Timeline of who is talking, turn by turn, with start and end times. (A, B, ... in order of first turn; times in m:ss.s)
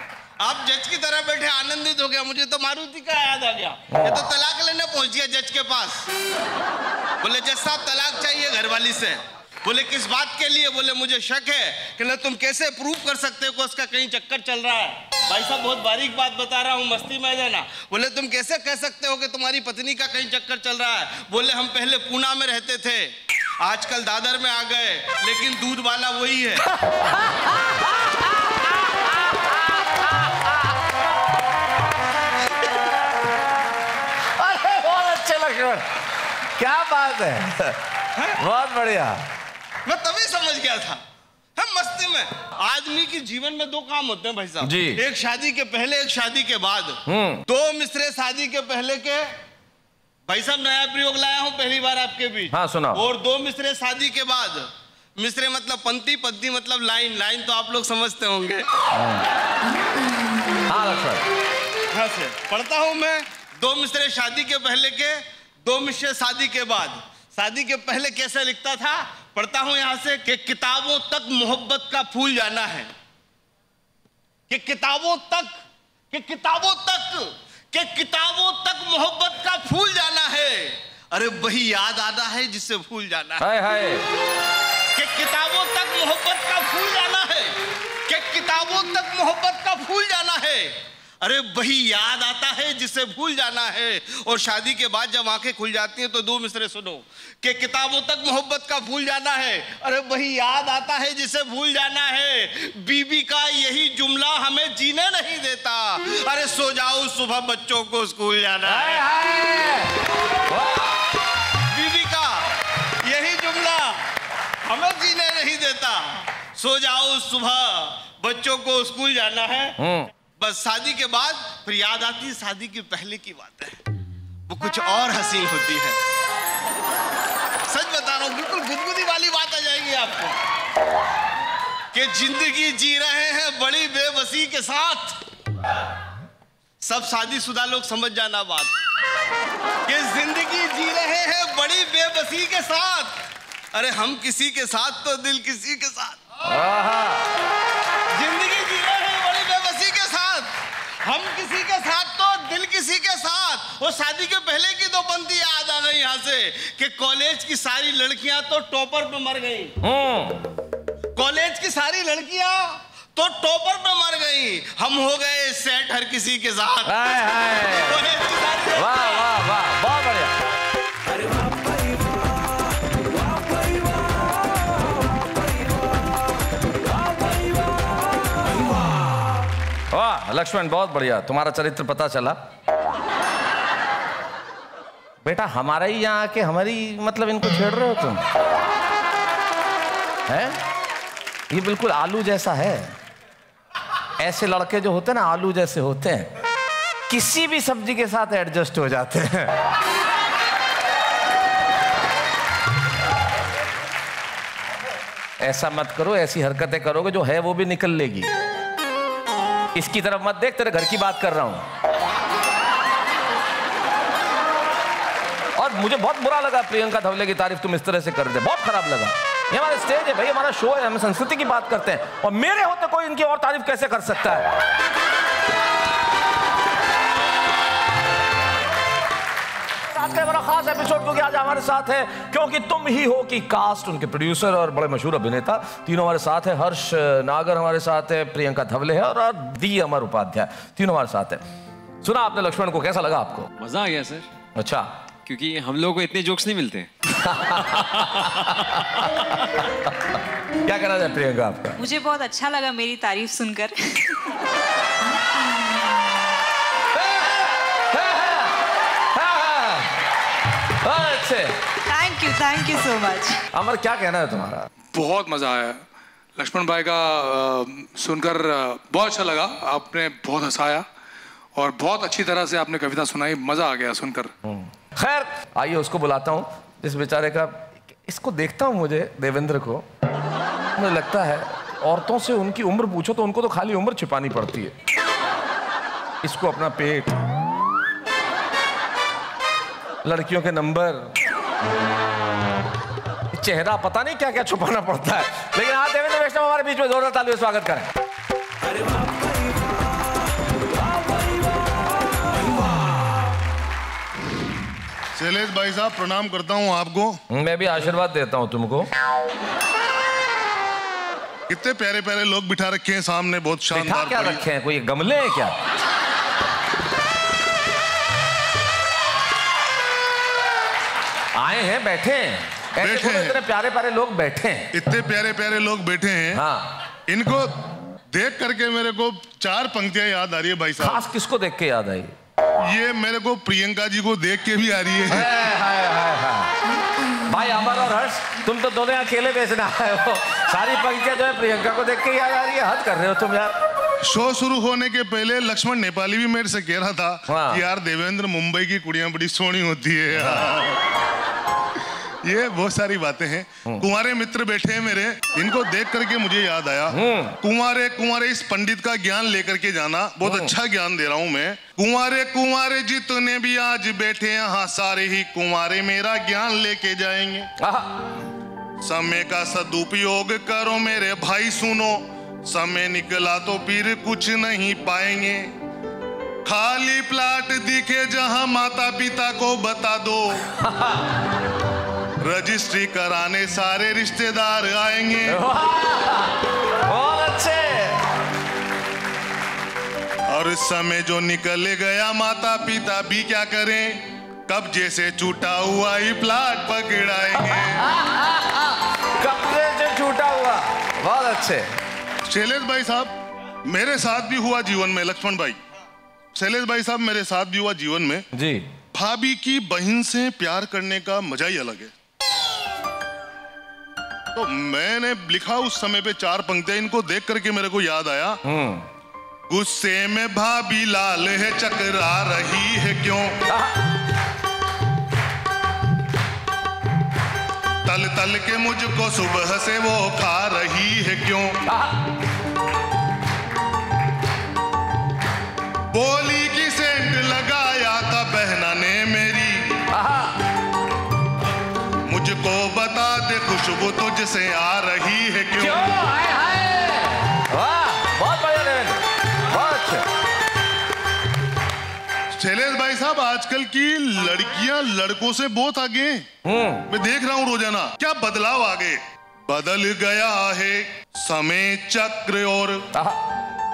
0:00.4-0:06.1 A
0:03.9-0:04.2 B
0:07.2-0:26.6 A
0:26.7-0:30.7 B
0:34.4-0:35.9 B
0:36.6-0:37.8 B
0:38.4-0:39.2 B
0:39.8-0:41.0 A
0:41.6-0:49.3 A
0:44.6-0:45.0 B
0:47.0-0:47.4 B
0:50.3-0:58.6 A
0:52.5-0:53.0 B
0:58.9-0:59.2 B
1:00.7-1:01.2 B
1:01.9-1:12.9 A
1:14.5-1:15.5 A
1:16.1-1:23.4 A
1:23.4-1:24.0 B
1:24.9-1:49.0 A
1:48.6-1:51.0 B
1:51.7-1:52.4 A
1:53.0-1:54.0 A
1:54.7-1:59.8 A
1:59.8-2:00.1 B
2:00.4-2:03.8 A
2:04.5-2:06.0 A
2:07.7-2:10.4 A
2:11.9-2:15.2 A
2:16.8-2:18.7 A
2:19.9-2:23.2 A
2:23.7-2:26.2 A
2:26.4-2:27.3 B
2:28.1-2:39.8 A
2:39.8-2:40.4 B
2:41.2-2:47.1 A
2:46.8-2:48.0 B
2:47.7-2:49.2 A
2:48.7-2:50.3 B
2:59.9-3:02.4 B
3:05.2-3:08.2 B
3:10.3-3:10.6 B
3:11.5-3:13.0 B
3:14.2-3:16.3 B
3:17.1-3:19.6 B
3:25.4-3:28.3 B
3:29.7-3:31.7 B
3:35.6-3:44.6 B
3:49.9-4:01.4 B
4:02.0-4:03.5 B
4:03.6-4:04.3 C
4:04.6-4:04.9 B
4:05.2-4:06.9 C
4:07.1-4:11.8 B
4:11.8-4:14.4 D
4:15.4-4:15.9 D
4:16.9-4:18.6 B
4:19.1-4:19.9 B
4:20.8-4:21.5 B
4:21.9-4:23.4 D
4:23.5-4:24.7 B
4:24.9-4:25.8 E
4:26.4-4:30.8 E
4:31.5-4:34.3 E
4:34.4-4:39.8 B
4:40.8-4:44.7 B
4:46.2-4:47.2 B
4:50.0-4:51.1 B
4:53.3-4:57.9 B
5:05.1-5:07.2 F
5:07.3-5:08.9 B
5:11.5-5:14.4 F
5:13.7-5:15.5 B
5:21.3-5:24.7 B
5:22.8-5:23.4 F
5:24.7-5:26.4 F
5:26.3-5:26.8 B
5:27.1-5:27.5 F
5:28.1-5:31.0 F
5:30.8-5:32.1 B
5:32.6-5:35.2 F
5:35.1-5:36.6 B
5:37.2-5:43.6 B
5:44.0-5:50.8 F
5:47.3-5:47.6 B
5:50.1-5:50.4 B
5:52.2-6:07.5 F
5:56.9-5:57.4 B
6:00.2-6:00.5 B
6:07.6-6:08.1 B
6:08.8-6:15.5 F
6:16.4-6:20.4 F
6:20.6-6:21.0 B
6:22.2-6:25.4 F
6:25.3-6:28.0 B
6:30.3-6:37.8 F
6:37.3-6:41.7 B
6:42.2-6:43.1 F
6:43.7-6:45.6 F
6:46.3-6:48.2 F
6:48.3-6:48.7 B
6:48.9-6:51.9 F
6:54.3-6:58.4 F
6:58.4-6:58.9 B
6:59.5-7:03.4 F
7:03.5-7:03.8 B
7:07.8-7:11.6 F
7:11.7-7:12.0 B
7:15.9-7:19.8 F
7:19.9-7:20.4 B
7:22.1-7:25.8 F
7:25.6-7:30.0 B
7:32.3-7:36.3 F
7:36.4-7:36.9 B
7:36.9-7:42.8 F
7:42.9-7:43.2 B